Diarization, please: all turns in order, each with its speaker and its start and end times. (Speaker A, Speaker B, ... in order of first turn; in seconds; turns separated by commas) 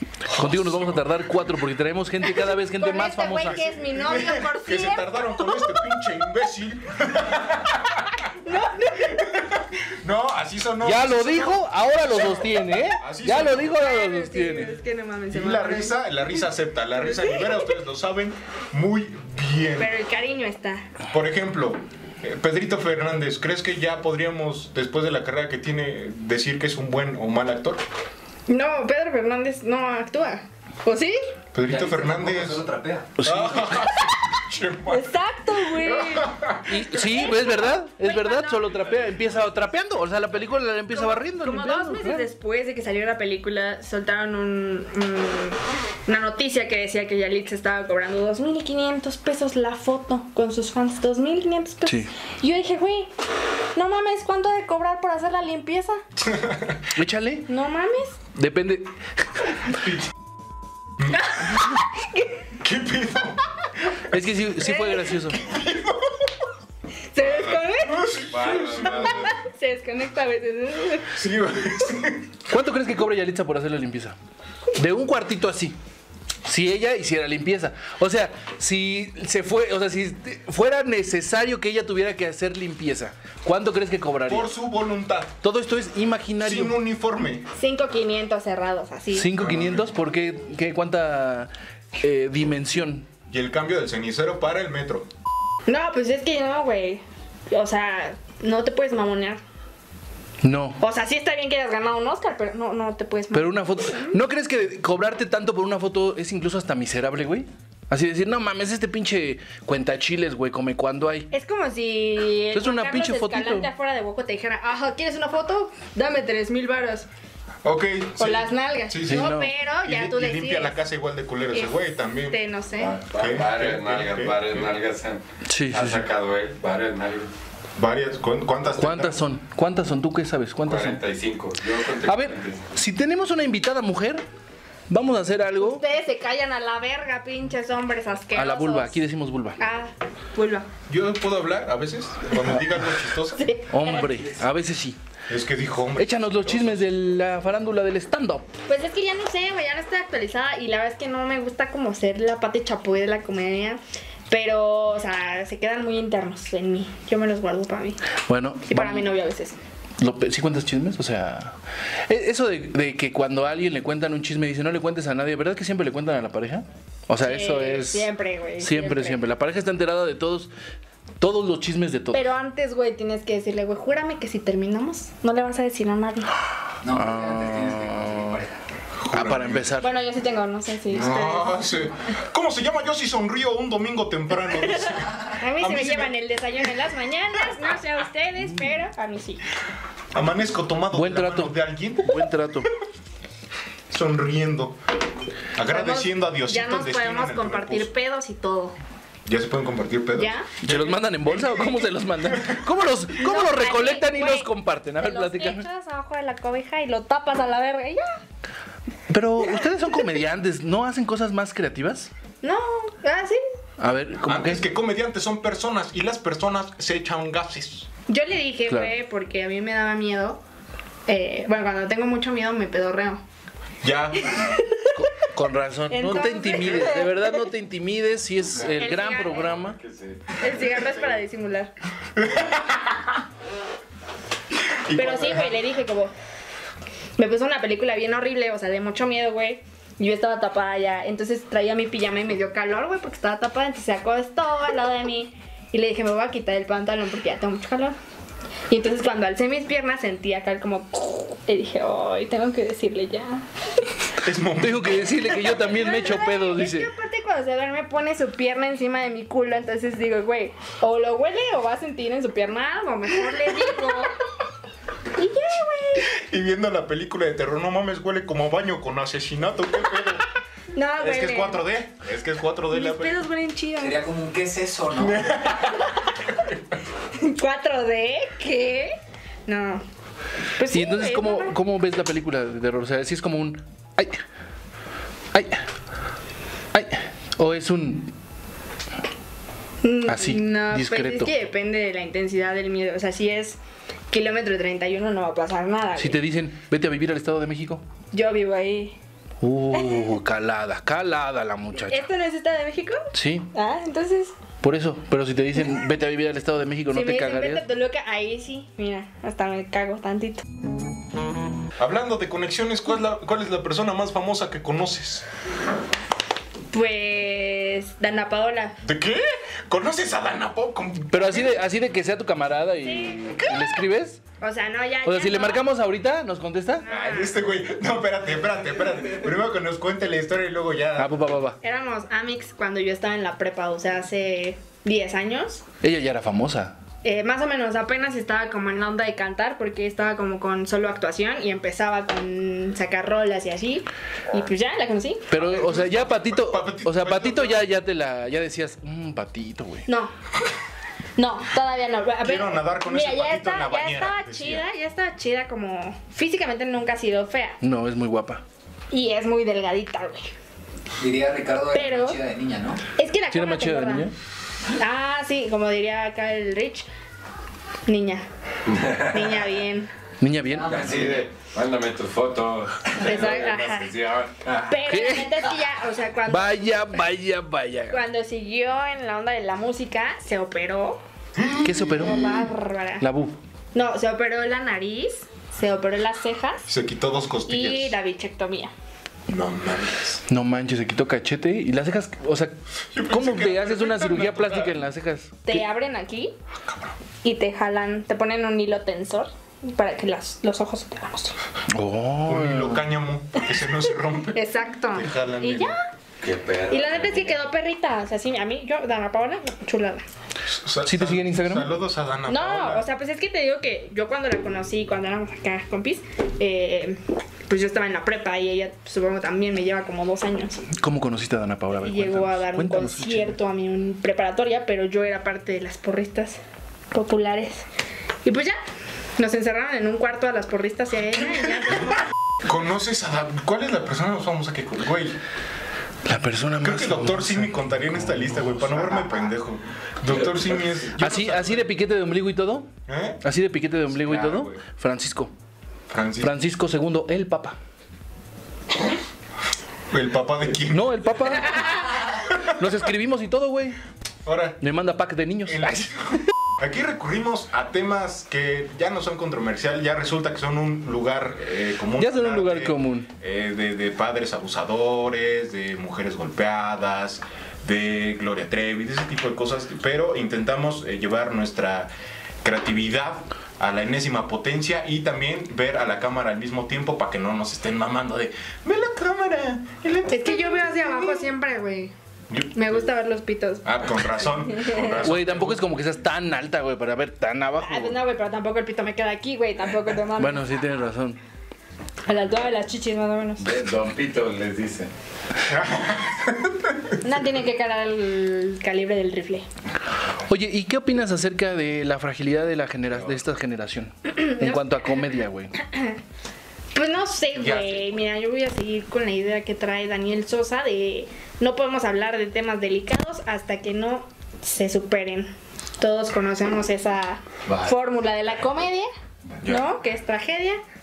Speaker A: 0.3-1.2, Speaker B: 0.3-3.6, Speaker C: 2.4-5.9, Speaker A: 3.4-8.3, Speaker C: 8.4-9.3, Speaker A: 9.0-13.8, Speaker B: 10.8-14.8, Speaker C: 13.5-16.0, Speaker A: 15.3-19.9, Speaker C: 19.8-20.9, Speaker A: 21.1-27.8, Speaker C: 28.5-31.2, Speaker A: 31.5-32.6, Speaker D: 31.7-33.2, Speaker B: 33.2-33.8, Speaker A: 33.2-35.1, Speaker C: 34.9-36.4, Speaker A: 35.7-36.9, Speaker B: 36.7-42.3, Speaker C: 36.9-38.8, Speaker C: 40.9-53.1, Speaker B: 51.9-52.1, Speaker C: 53.8-56.0, Speaker A: 56.2-56.9, Speaker B: 57.0-57.5, Speaker C: 57.5-58.2, Speaker B: 58.4-58.9, Speaker A: 61.0-61.3, Speaker C: 62.0-62.3, Speaker A: 62.6-64.2, Speaker B: 64.1-65.4, Speaker C: 64.6-65.1, Speaker A: 65.3-66.3, Speaker C: 67.1-68.1, Speaker E: 67.2-67.6, Speaker A: 67.8-69.3, Speaker E: 68.2-69.4, Speaker C: 68.9-71.2, Speaker A: 71.1-72.4, Speaker B: 72.5-74.2, Speaker B: 74.8-75.8, Speaker B: 76.5-84.5, Speaker A: 84.3-85.3, Speaker B: 85.4-86.8, Speaker A: 86.4-87.5, Speaker C: 87.6-89.3, Speaker B: 89.1-93.1, Speaker A: 89.3-89.9, Speaker A: 93.3-95.1, Speaker C: 95.7-99.4, Speaker B: 100.4-100.8, Speaker C: 100.8-104.2, Speaker B: 103.3-111.3, Speaker C: 111.3-117.1, Speaker B: 112.5-113.7, Speaker A: 117.6-122.4, Speaker C: 118.2-120.8, Speaker B: 119.0-119.5, Speaker C: 122.3-123.0, Speaker E: 122.8-127.3, Speaker A: 123.1-124.6, Speaker B: 125.5-126.1, Speaker A: 127.8-129.2, Speaker B: 128.8-131.0, Speaker E: 130.7-132.6, Speaker B: 132.1-134.2, Speaker B: 134.9-135.8, Speaker C: 135.6-139.0, Speaker B: 138.3-139.6, Speaker C: 139.6-140.7, Speaker A: 140.9-143.5, Speaker C: 143.4-144.2, Speaker B: 143.7-145.0, Speaker A: 145.3-146.9, Speaker B: 146.0-148.5, Speaker C: 148.7-158.0, Speaker B: 158.3-159.1, Speaker C: 158.7-159.6, Speaker B: 160.0-161.6, Speaker B: 162.1-168.1, Speaker C: 167.2-169.2, Speaker B: 168.6-170.5, Speaker B: 171.2-172.2, Speaker C: 172.1-176.3, Speaker D: 176.8-178.6, Speaker B: 176.9-178.4, Speaker A: 179.0-179.7, Speaker B: 179.1-179.9, Speaker C: 179.8-181.6, Speaker A: 180.9-186.1, Speaker C: 184.7-189.4, Speaker A: 190.1-192.3, Speaker B: 190.9-192.7, Speaker A: 193.9-194.8, Speaker A: 195.6-197.9, Speaker C: 195.7-198.8, Speaker A: 199.3-202.7, Speaker C: 200.2-200.5, Speaker B: 200.6-205.7, Speaker C: 203.1-208.2, Speaker B: 209.1-212.1, Speaker C: 212.4-213.4, Speaker B: 213.8-214.7, Speaker A: 214.2-217.9, Speaker C: 218.1-220.4, Speaker B: 218.7-218.9, Speaker C: 221.1-223.2, Speaker A: 223.8-224.4, Speaker C: 224.3-224.9, Speaker B: 224.9-229.8, Speaker C: 225.9-227.4, Speaker C: 228.8-229.5, Speaker E: 229.6-231.2, Speaker C: 230.4-231.7, Speaker A: 232.2-233.1, Speaker A: 234.7-235.6, Speaker C: 234.9-236.1, Speaker C: 237.2-248.0, Speaker C: 248.7-253.5, Speaker A: 254.2-255.4, Speaker B: 254.6-256.9, Speaker C: 255.3-264.1, Speaker C: 265.1-266.1, Speaker A: 266.0-270.3, Speaker C: 270.7-271.6, Speaker A: 271.0-273.2, Speaker C: 272.7-274.1, Speaker D: 273.8-275.4, Speaker A: 275.0-276.6, Speaker C: 277.2-279.0, Speaker C: 279.5-279.8, Speaker C: 280.6-281.5, Speaker B: 280.7-284.2, Speaker B: 285.3-285.7, Speaker B: 286.7-288.1, Speaker C: 289.8-293.6, Speaker B: 290.1-291.3, Speaker C: 294.1-296.2, Speaker B: 296.0-297.8, Speaker C: 298.1-299.0, Speaker B: 299.4-302.1, Speaker C: 299.7-300.1, Speaker C: 301.9-304.4, Speaker B: 303.1-303.5, Speaker B: 304.6-307.6, Speaker C: 306.9-310.4, Speaker A: 311.8-315.2, Speaker C: 316.7-318.8, Speaker A: 318.8-321.6, Speaker B: 321.1-324.2, Speaker C: 322.8-323.5, Speaker C: 324.4-325.6, Speaker B: 325.0-326.9, Speaker C: 326.8-327.4, Speaker A: 326.9-331.2, Speaker B: 331.0-331.6, Speaker C: 331.6-335.6, Speaker B: 335.8-336.8, Speaker C: 337.0-345.2, Speaker B: 345.3-349.9, Speaker A: 345.4-347.7, Speaker C: 349.9-350.1, Speaker C: 351.2-357.6, Speaker A: 352.2-354.7, Speaker B: 357.6-358.4, Speaker C: 358.9-360.3, Speaker D: 361.0-362.8, Speaker C: 361.7-362.2, Speaker C: 363.0-364.1, Speaker B: 363.3-364.1, Speaker C: 364.7-366.9, Speaker C: 367.9-368.3, Speaker E: 368.7-369.4, Speaker C: 369.1-369.9, Speaker B: 370.2-370.9, Speaker D: 370.5-371.3, Speaker E: 370.7-374.8, Speaker C: 373.0-373.9, Speaker C: 374.6-376.7, Speaker B: 374.9-375.5, Speaker B: 376.3-378.0, Speaker C: 377.9-381.0, Speaker A: 381.4-382.5, Speaker B: 381.6-382.3, Speaker C: 381.9-383.0, Speaker B: 383.0-383.4, Speaker C: 383.7-386.7, Speaker A: 386.7-388.0, Speaker C: 387.5-388.7, Speaker A: 389.3-390.2, Speaker B: 390.3-392.6, Speaker A: 392.9-394.8, Speaker B: 393.1-395.6, Speaker C: 395.5-396.4, Speaker A: 396.6-396.9, Speaker C: 397.2-401.4, Speaker B: 401.7-402.8, Speaker A: 402.3-405.8, Speaker C: 404.3-405.8, Speaker E: 406.2-407.4, Speaker C: 406.7-410.1, Speaker A: 410.4-412.9, Speaker B: 410.8-411.7, Speaker C: 412.3-420.7, Speaker B: 420.7-423.4, Speaker C: 421.8-426.4, Speaker C: 426.9-427.7, Speaker C: 428.2-428.6, Speaker C: 429.2-432.0, Speaker A: 432.4-435.2, Speaker B: 436.1-438.8, Speaker A: 436.6-441.7, Speaker B: 441.0-442.7, Speaker A: 442.9-443.2, Speaker B: 443.2-445.3, Speaker A: 444.0-444.6, Speaker A: 445.9-446.4, Speaker B: 446.2-447.6, Speaker A: 449.9-451.6, Speaker B: 450.7-453.8, Speaker A: 452.3-452.5, Speaker A: 454.2-454.6, Speaker B: 454.6-455.9, Speaker A: 455.5-471.9, Speaker B: 462.0-463.1, Speaker A: 472.4-481.3, Speaker C: 480.1-481.9, Speaker A: 482.3-482.9, Speaker C: 482.5-483.7, Speaker A: 483.6-485.6, Speaker C: 484.5-485.0, Speaker B: 485.0-488.0, Speaker C: 487.6-490.5, Speaker B: 490.2-491.2, Speaker C: 492.1-493.5, Speaker E: 493.4-494.9, Speaker A: 495.5-497.0, Speaker C: 497.0-499.5, Speaker B: 500.3-505.5, Speaker C: 504.2-504.8, Speaker C: 505.6-506.0, Speaker C: 506.7-518.9, Speaker A: 507.4-507.9, Speaker A: 519.4-519.7, Speaker C: 519.4-520.6